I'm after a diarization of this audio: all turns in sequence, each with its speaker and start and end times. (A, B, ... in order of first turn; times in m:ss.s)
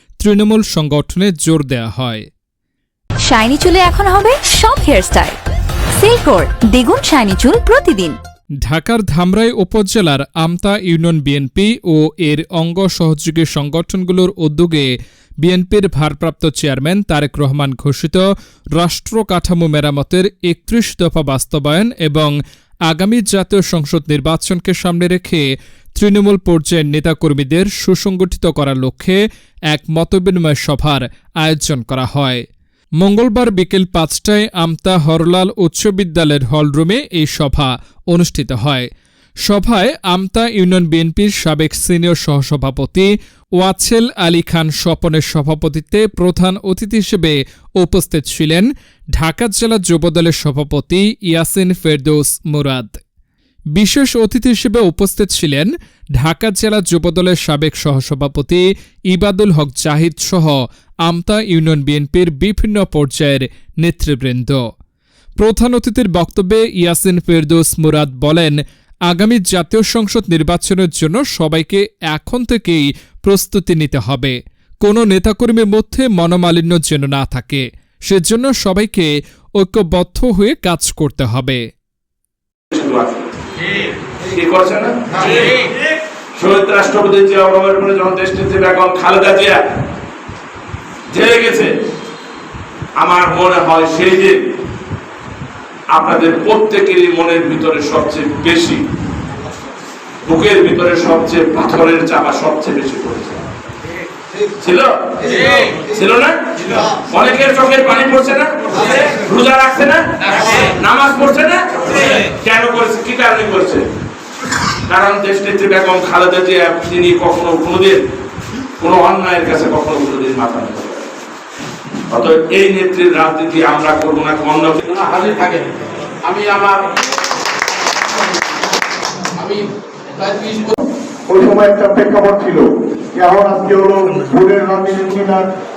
0:00.2-0:02.2 A
0:03.2-0:05.4 B
0:06.0-0:08.2 B
0:08.6-0:14.9 A
0:15.4-0:22.4 A
0:22.9-0:32.4 A
0:33.0-0:38.9 A
0:39.4-0:53.0 A
0:53.7-1:04.6 A
1:05.4-1:21.6 A
1:22.7-1:23.2 C
1:24.3-1:25.6 C
1:26.4-1:29.6 C
1:31.1-1:31.7 C
1:33.0-1:34.4 C
1:35.9-1:38.8 C
1:40.2-1:43.4 C
1:44.6-1:53.8 C
1:54.9-1:58.0 C
1:58.8-2:01.1 C
2:02.1-2:04.8 C
2:04.9-2:05.7 D
2:06.2-2:06.8 D
2:09.4-2:10.7 D
2:11.3-2:15.4 E